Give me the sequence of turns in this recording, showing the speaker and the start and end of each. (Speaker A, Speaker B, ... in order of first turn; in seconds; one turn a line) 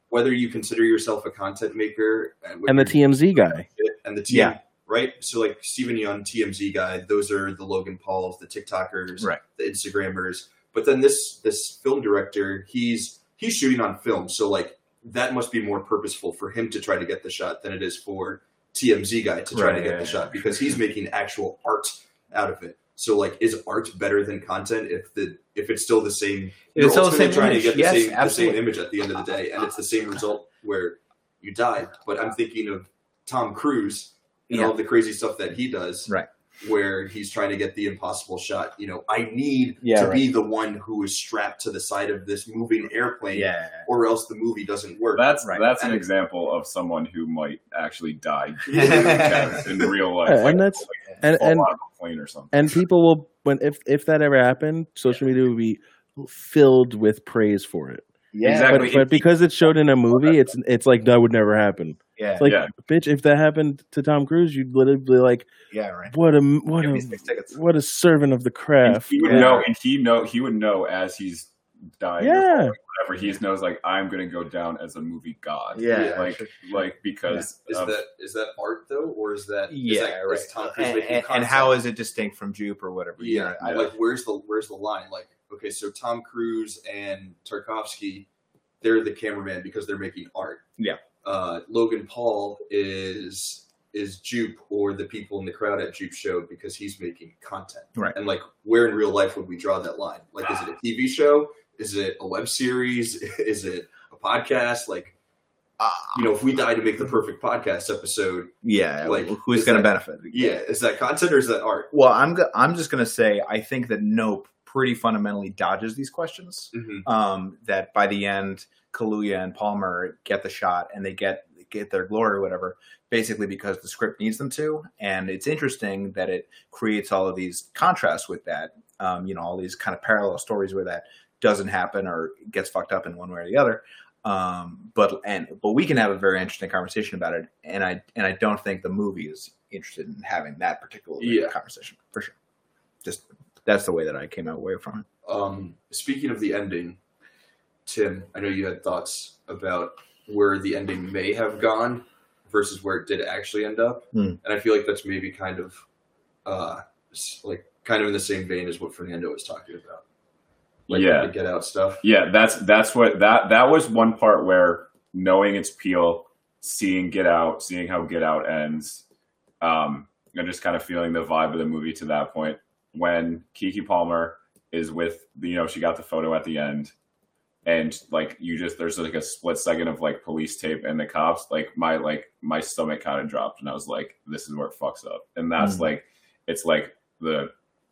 Speaker A: 0.1-46.0
Speaker B: 2.7-3.6
Speaker C: 4.3-4.5
Speaker C: 19.5-20.3
Speaker C: 26.7-28.6
Speaker C: 34.5-34.7
Speaker C: 39.8-40.2
Speaker C: 43.3-43.9
Speaker D: 45.1-52.5
Speaker C: 45.4-45.7
Speaker A: 48.7-49.8
Speaker C: 48.7-49.6
Speaker B: 50.2-51.7
Speaker B: 52.5-58.0
Speaker C: 58.3-59.0
Speaker D: 58.4-59.2
Speaker B: 58.7-65.5
Speaker C: 62.2-62.5
Speaker D: 62.4-62.7
Speaker C: 65.7-66.1
Speaker B: 66.1-69.5
Speaker C: 66.8-67.6
Speaker D: 68.8-78.0
Speaker C: 69.2-69.7
Speaker B: 72.2-72.8
Speaker C: 75.7-77.5
Speaker A: 75.9-76.3
Speaker A: 77.6-81.8
Speaker C: 79.7-83.9
Speaker A: 83.2-88.3
Speaker A: 88.8-90.7
Speaker A: 91.2-105.1
Speaker C: 105.8-106.3
Speaker A: 106.1-111.9
Speaker C: 108.6-110.6
Speaker C: 111.9-142.3
Speaker A: 116.7-117.0
Speaker A: 141.2-141.5
Speaker C: 143.0-145.1
Speaker A: 145.2-147.0
Speaker A: 147.8-155.8
Speaker C: 154.1-154.4
Speaker A: 156.4-160.0
Speaker D: 160.9-161.3
Speaker A: 160.9-162.0
Speaker D: 162.0-169.0
Speaker D: 169.6-176.9
Speaker D: 177.6-187.5
Speaker C: 185.6-185.9